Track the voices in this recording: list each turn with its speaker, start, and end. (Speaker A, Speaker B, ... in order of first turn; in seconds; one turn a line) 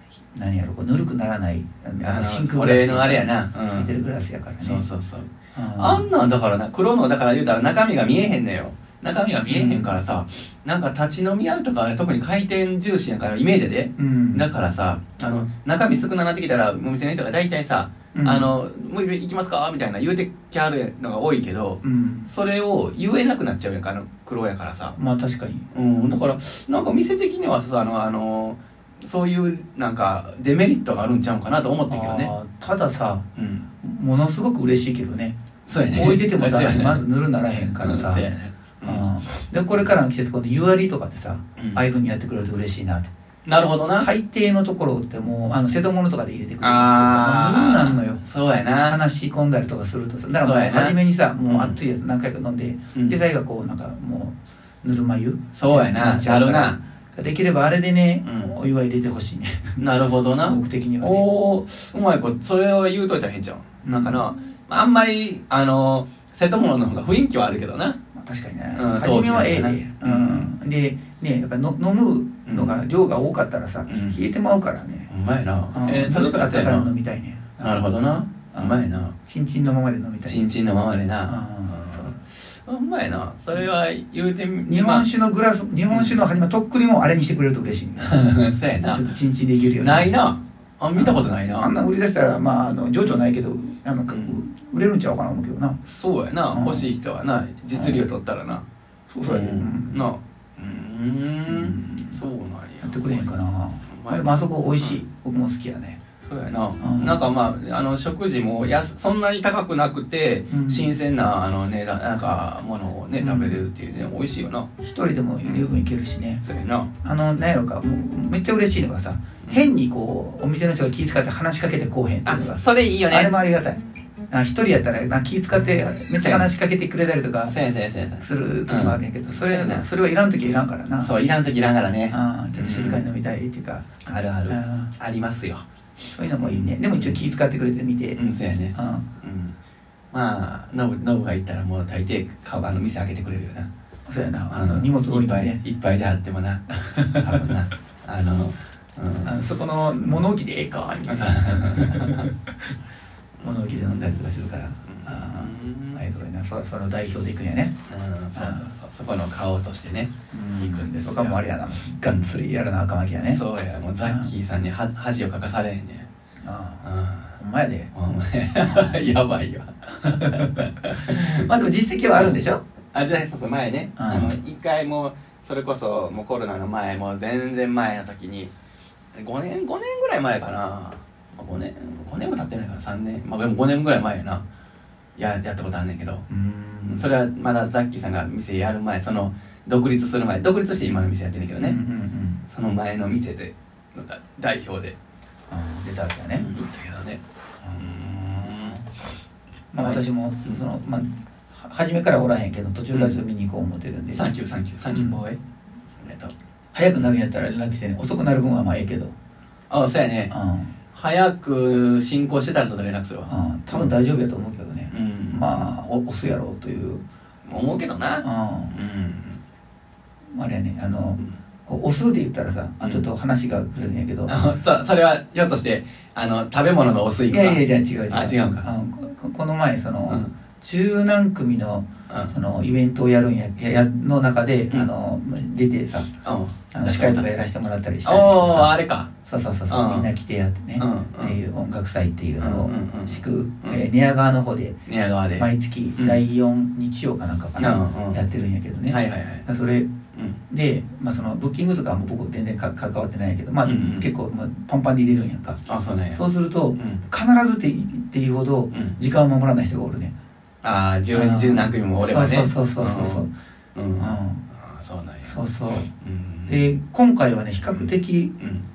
Speaker A: 0.3-4.8
Speaker B: 2.0-4.0
Speaker B: 4.6-25.0
Speaker A: 5.5-6.1
Speaker A: 9.5-9.9
Speaker A: 14.0-14.5
Speaker A: 18.1-18.5
Speaker A: 21.8-22.3
Speaker A: 25.0-25.7
Speaker B: 25.7-32.3
Speaker A: 31.9-33.3
Speaker B: 33.4-33.7
Speaker A: 33.8-35.4
Speaker B: 35.7-39.9
Speaker A: 35.9-38.3
Speaker A: 38.8-43.1
Speaker B: 41.6-41.9
Speaker B: 43.5-44.1
Speaker A: 44.0-48.2
Speaker B: 46.6-49.0
Speaker A: 48.9-59.8
Speaker B: 50.4-51.8
Speaker B: 55.5-56.8
Speaker B: 58.2-58.6
Speaker B: 59.8-68.0
Speaker A: 60.5-61.3
Speaker A: 63.8-64.3
Speaker A: 68.2-75.1
Speaker B: 68.7-70.5
Speaker B: 72.5-72.8
Speaker B: 73.9-74.2
Speaker B: 75.1-76.9
Speaker A: 75.7-77.8
Speaker B: 77.6-79.2
Speaker A: 78.5-80.5
Speaker B: 80.2-85.1
Speaker A: 81.3-82.1
Speaker A: 84.7-88.2
Speaker B: 85.9-86.2
Speaker B: 88.0-89.1
Speaker A: 88.8-90.1
Speaker B: 89.8-91.7
Speaker A: 91.0-95.8
Speaker B: 94.1-94.4
Speaker B: 95.8-98.7
Speaker A: 96.5-96.9
Speaker A: 97.7-98.0
Speaker A: 99.1-100.1
Speaker B: 99.3-103.3
Speaker A: 101.5-102.2
Speaker A: 102.8-106.0
Speaker B: 103.9-105.0
Speaker B: 106.2-114.7
Speaker A: 106.8-107.3
Speaker A: 110.5-111.0
Speaker A: 113.2-113.6
Speaker A: 114.8-116.4
Speaker B: 115.4-115.7
Speaker B: 116.4-116.9
Speaker A: 117.0-127.6
Speaker B: 122.2-123.3
Speaker B: 126.2-126.5
Speaker B: 127.4-129.9
Speaker A: 128.2-131.1
Speaker B: 131.0-133.1
Speaker A: 132.1-133.9
Speaker B: 134.0-135.7
Speaker A: 134.5-134.9
Speaker A: 136.1-138.2
Speaker B: 136.4-137.2
Speaker B: 138.2-139.6
Speaker A: 138.8-139.1
Speaker B: 140.1-143.7
Speaker A: 144.1-145.6
Speaker B: 144.5-149.5
Speaker A: 146.8-147.5
Speaker A: 149.2-152.7
Speaker B: 151.1-152.3
Speaker B: 153.4-154.3
Speaker A: 153.4-157.8
Speaker B: 154.8-156.0
Speaker B: 157.9-161.4
Speaker A: 158.4-158.6
Speaker A: 160.3-163.4
Speaker B: 161.9-162.4
Speaker B: 163.2-166.1
Speaker A: 164.0-164.3
Speaker A: 166.4-166.8
Speaker B: 166.8-167.4
Speaker A: 167.4-167.9
Speaker B: 167.9-171.5
Speaker A: 168.6-169.0
Speaker A: 170.0-172.6
Speaker B: 172.9-178.5
Speaker A: 174.0-174.3
Speaker B: 179.1-184.4
Speaker B: 185.2-186.3
Speaker A: 186.3-187.1
Speaker B: 186.8-191.8
Speaker A: 191.6-192.4
Speaker B: 192.4-195.0
Speaker A: 195.5-196.5
Speaker B: 196.3-198.8
Speaker A: 197.6-198.8
Speaker B: 199.7-200.6
Speaker A: 199.7-204.2
Speaker B: 202.9-203.2
Speaker B: 204.1-205.4
Speaker A: 204.9-205.2
Speaker B: 206.0-206.3
Speaker A: 206.7-209.1
Speaker B: 209.7-210.3
Speaker A: 210.3-210.7
Speaker B: 210.9-213.9
Speaker A: 213.3-217.0
Speaker B: 214.9-215.7
Speaker B: 217.4-219.4
Speaker A: 218.2-218.8
Speaker A: 220.3-224.4
Speaker B: 222.8-223.1
Speaker B: 224.3-228.7
Speaker A: 227.3-236.1
Speaker B: 230.1-230.3
Speaker B: 236.2-237.3
Speaker A: 236.7-244.8
Speaker B: 238.0-239.2
Speaker B: 239.7-240.1
Speaker B: 240.8-241.4
Speaker B: 242.4-243.8
Speaker B: 244.9-246.2
Speaker A: 245.4-249.9
Speaker B: 247.6-248.2
Speaker B: 248.9-249.5
Speaker B: 250.1-250.4
Speaker A: 250.5-255.6
Speaker B: 253.7-254.1
Speaker B: 255.7-256.2
Speaker A: 256.1-260.1
Speaker B: 256.8-257.0
Speaker B: 258.7-259.0
Speaker B: 260.6-265.4
Speaker A: 261.1-263.3
Speaker A: 264.0-264.4
Speaker A: 265.2-265.9
Speaker B: 266.0-266.7
Speaker A: 266.5-268.3
Speaker B: 267.6-268.6